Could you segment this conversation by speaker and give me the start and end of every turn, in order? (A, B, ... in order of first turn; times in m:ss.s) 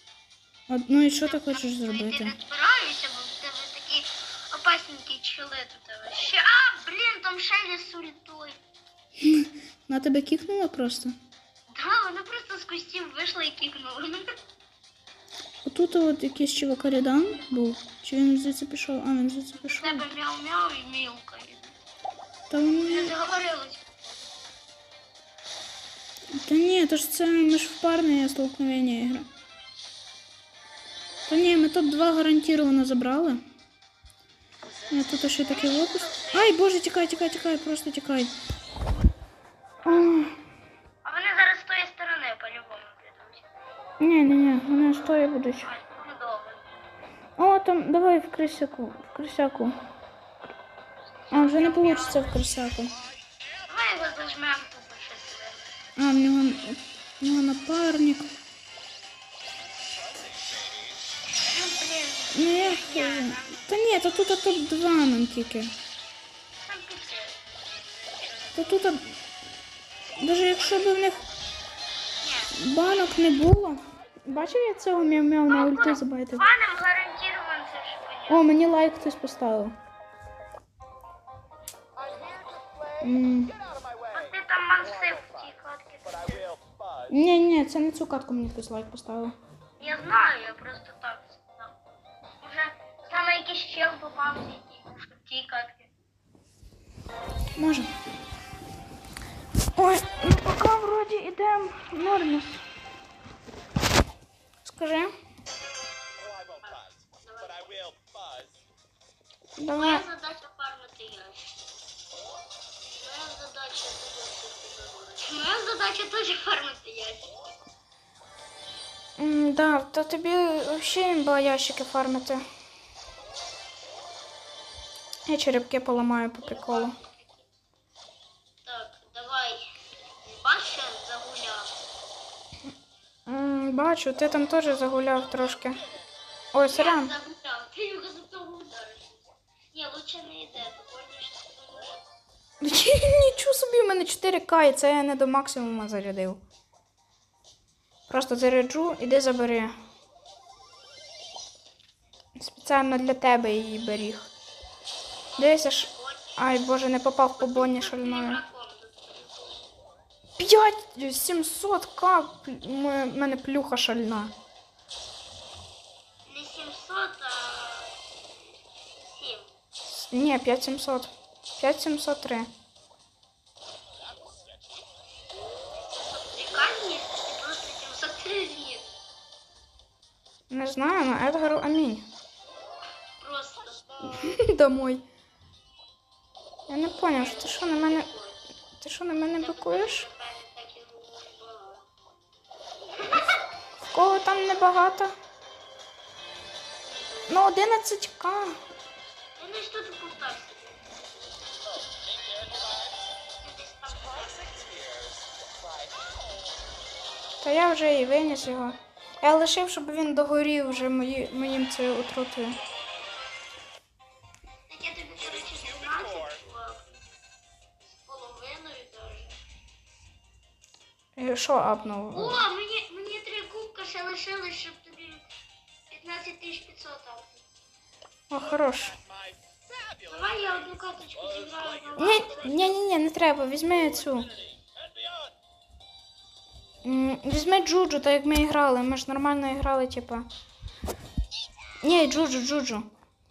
0:00.7-0:02.4 A
0:01.2-0:08.6 B
0:09.2-0:11.1 A
0:11.7-0:14.3 B
0:15.6-0:20.0 A
0:19.6-0:21.8 B
0:22.5-0:23.2 A
0:22.9-0:24.3 B
0:26.4-0:29.3 A
0:31.3-0:33.4 A
0:34.9-0:38.3 A
0:35.5-0:36.6 B
0:39.8-0:40.2 B
0:39.8-0:40.4 A
0:41.0-0:43.5 B
0:44.0-0:45.7 A
0:45.0-0:46.6 B
0:47.4-0:49.8 A
0:51.0-0:52.4 B
0:51.3-0:53.0 A
0:53.7-0:55.7 B
0:56.0-0:58.3 A
1:01.3-1:03.6 B
1:02.3-1:05.7 A
1:06.6-1:08.9 B
1:08.6-1:09.1 A
1:10.2-1:11.2 A
1:12.2-1:13.2 B
1:12.6-1:16.4 A
1:15.5-1:18.5 B
1:18.3-1:19.8 A
1:22.0-1:22.6 B
1:23.0-1:23.6 A
1:24.1-1:26.5 B
1:27.1-1:29.4 A
1:29.8-1:31.8 B
1:32.4-1:35.9 B
1:37.6-1:37.9 A
1:39.8-1:42.6 A
1:44.6-1:45.1 A
1:46.6-1:47.9 B
1:49.6-1:50.0 A
1:49.8-1:51.6 B
1:52.9-1:57.5 B
1:59.2-2:02.4 A
2:05.3-2:07.0 A
2:06.4-2:07.5 B
2:08.6-2:11.7 B
2:13.3-2:15.8 A
2:16.5-2:17.1 A
2:16.7-2:22.1 B
2:22.6-2:26.4 A
2:28.1-2:29.8 A
2:32.4-2:34.3 A
2:35.3-2:36.4 B
2:35.4-2:38.4 A
2:37.4-2:39.7 B
2:40.4-2:44.3 A
2:46.3-2:49.5 B
2:49.9-2:52.5 A
2:55.8-2:59.0 B
3:00.5-3:02.1 A
3:03.2-3:04.4 B
3:04.1-3:05.0 A
3:06.7-3:08.1 A
3:07.1-3:08.4 B
3:08.8-3:10.0 A
3:09.4-3:11.9 B
3:12.8-3:13.4 B
3:13.9-3:15.1 A
3:16.8-3:17.4 B
3:17.3-3:18.6 A
3:19.4-3:21.8 B
3:23.4-3:24.9 B
3:27.4-3:32.6 A
3:34.7-3:37.0 B
3:37.8-3:39.4 B
3:41.2-3:42.4 A
3:42.1-3:45.2 B
3:45.9-3:47.4 B
3:48.3-3:49.0 A
3:50.0-3:52.8 B
3:52.0-3:54.3 A
3:56.8-4:00.3 A
4:01.8-4:02.9 A